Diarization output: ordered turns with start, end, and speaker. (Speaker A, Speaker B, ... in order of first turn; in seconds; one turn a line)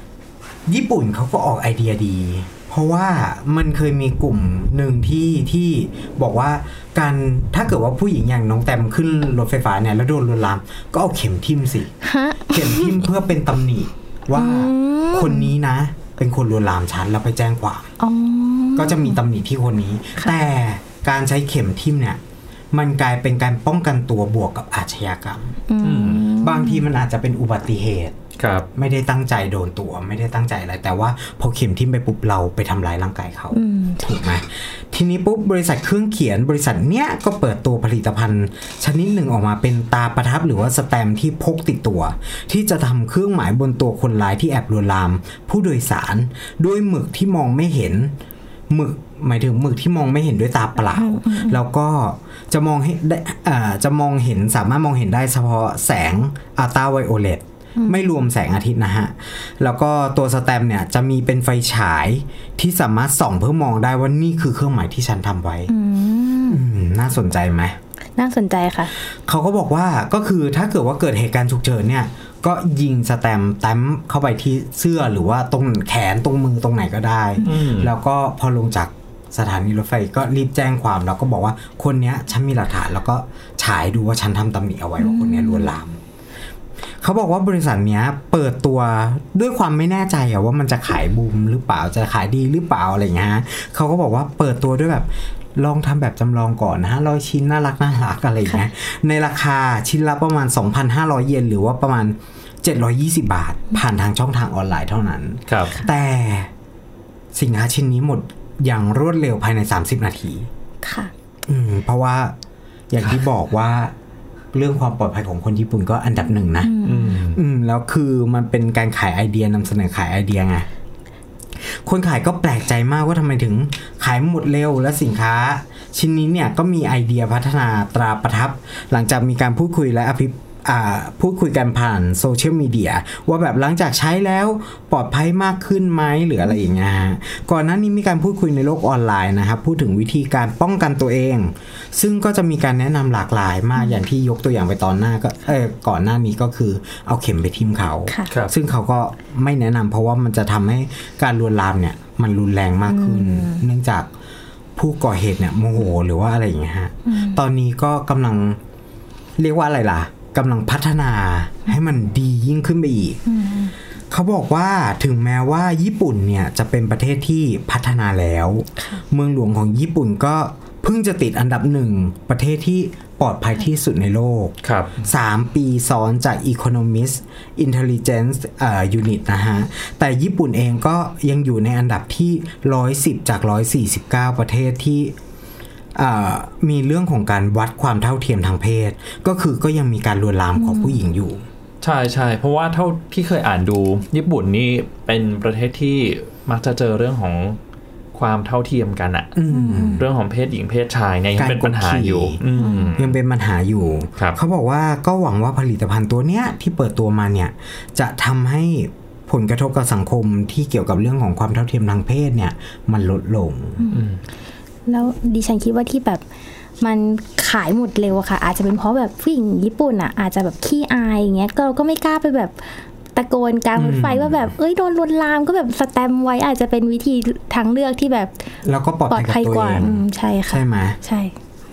Speaker A: 0.7-11.9
Speaker B: 12.0-13.0
Speaker A: 12.5-17.9
Speaker B: 14.3-15.5
Speaker B: 18.0-19.2
Speaker A: 18.8-22.2
Speaker A: 22.7-25.6
Speaker B: 25.7-26.9
Speaker C: 25.8-26.2
Speaker A: 26.4-28.2
Speaker C: 28.4-28.7
Speaker A: 28.7-48.1
Speaker B: 33.5-34.1
Speaker A: 48.7-65.7
Speaker B: 50.9-51.6
Speaker B: 57.8-58.1
Speaker B: 65.7-66.6
Speaker A: 66.5-67.8
Speaker B: 68.2-68.9
Speaker A: 69.0-86.0
Speaker C: 77.4-77.9
Speaker B: 85.0-85.7
Speaker A: 87.0-106.5
Speaker C: 105.5-105.7
Speaker A: 107.3-110.5
Speaker B: 110.8-111.1
Speaker A: 111.5-112.3
Speaker A: 112.9-113.9
Speaker A: 114.5-116.7
Speaker B: 116.6-117.2
Speaker C: 116.8-117.4
Speaker A: 117.2-120.7
Speaker A: 121.6-154.1
Speaker B: 152.9-153.6
Speaker A: 154.8-158.6
Speaker B: 157.1-157.4
Speaker A: 159.4-163.2
Speaker B: 163.2-163.7
Speaker A: 164.1-185.1
Speaker B: 168.8-169.0
Speaker C: 174.6-175.0
Speaker A: 185.9-191.4
Speaker B: 190.6-191.0
Speaker C: 191.8-197.6
Speaker C: 198.1-199.4
Speaker A: 199.3-200.1
Speaker B: 199.5-200.0
Speaker C: 200.0-203.2
Speaker A: 201.4-202.4
Speaker B: 202.6-202.9
Speaker A: 202.9-213.8
Speaker B: 213.8-214.1
Speaker C: 213.9-214.2
Speaker B: 214.9-216.2
Speaker B: 216.8-228.5
Speaker A: 223.8-224.5
Speaker A: 228.6-231.0
Speaker B: 229.1-231.3